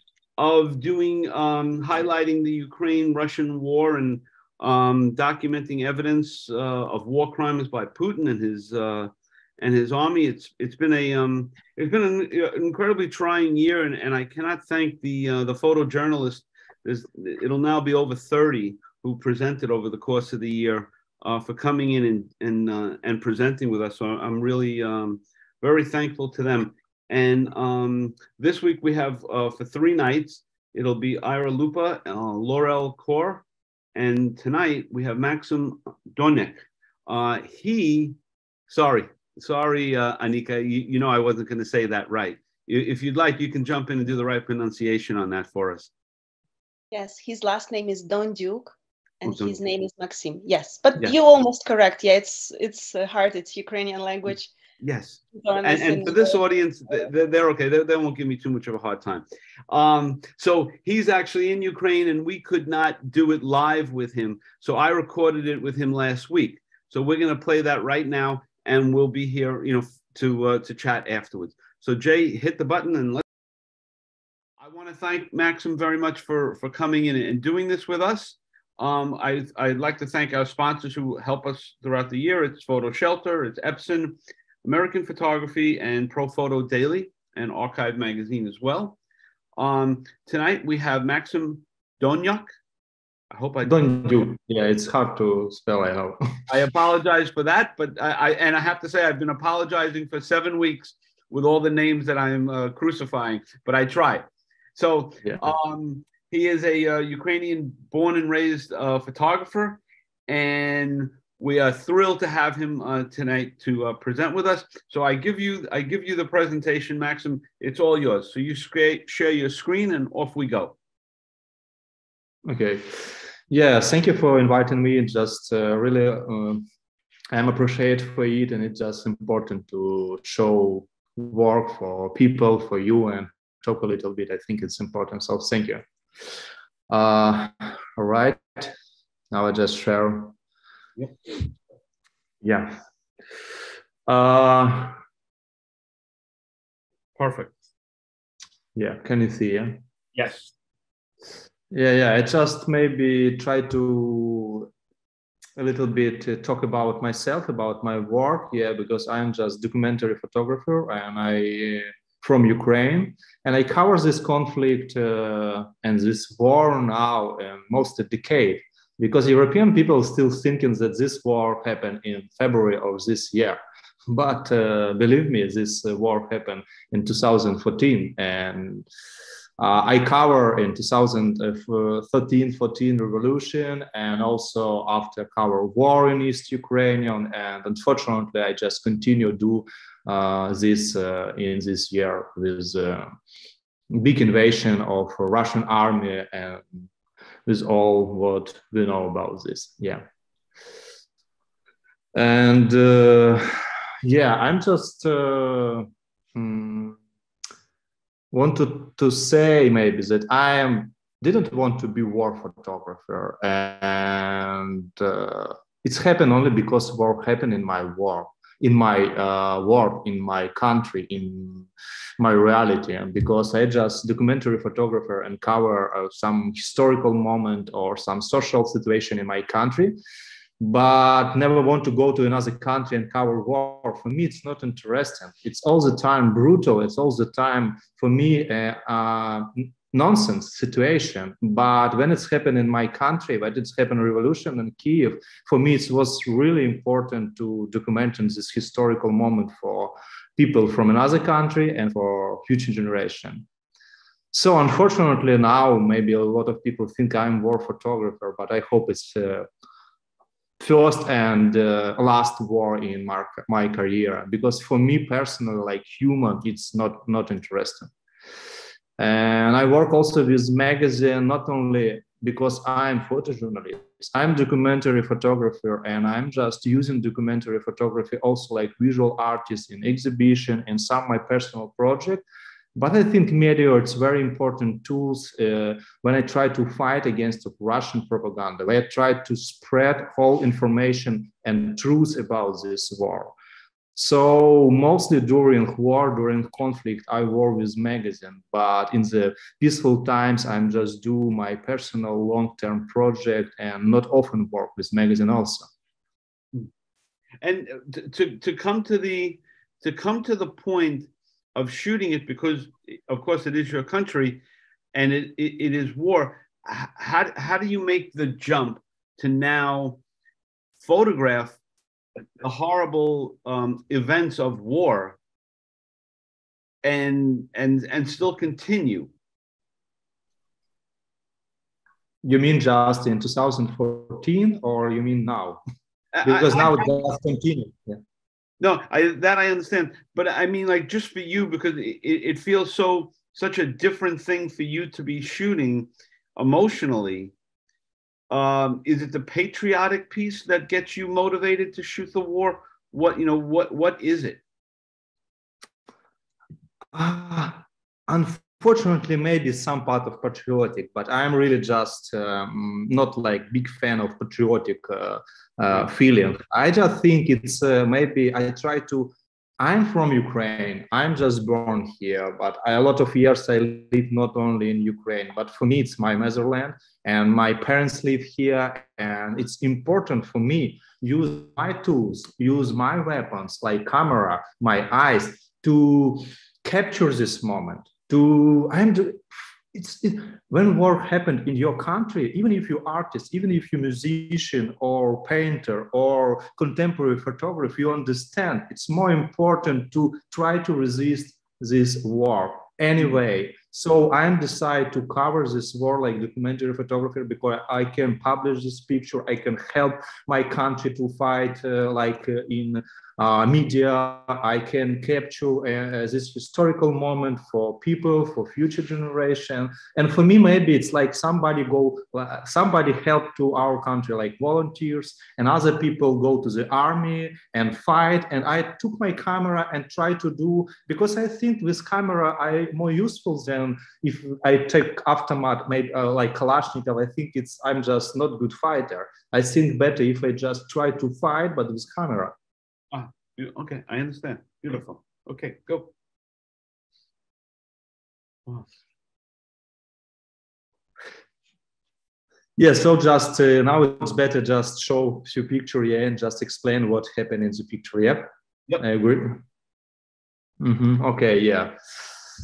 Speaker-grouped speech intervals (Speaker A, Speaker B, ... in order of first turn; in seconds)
Speaker A: 0.4-33.4, 33.9-38.1, 38.7-45.9, 49.2-49.6, 54.8-73.2, 74.6-89.0, 89.5-92.5, 93.3-94.2, 96.5-120.8, 147.2-147.5, 150.1-150.5, 307.4-314.4, 314.9-320.0, 320.8-321.6, 322.4-325.2, 326.8-329.1, 336.1-337.0, 338.6-347.3, 348.3-354.4, 442.9-445.9
Speaker B: 46.9-54.5, 55.3-56.4
Speaker C: 93.6-96.4, 122.5-126.7, 127.3-135.8, 136.9-138.7, 139.3-140.3, 142.4-142.8, 144.1-145.0, 148.7-149.8, 151.7-154.7, 155.6-178.9, 179.6-193.1, 193.9-196.9, 197.4-200.0, 202.1-203.5, 204.0-207.0, 208.3-221.7, 222.2-230.0, 230.6-253.5, 254.3-259.5, 260.6-267.9, 269.0-293.3, 293.9-305.7, 332.2-335.6, 336.2-338.0, 356.9-442.4, 452.6-459.4, 460.6-461.7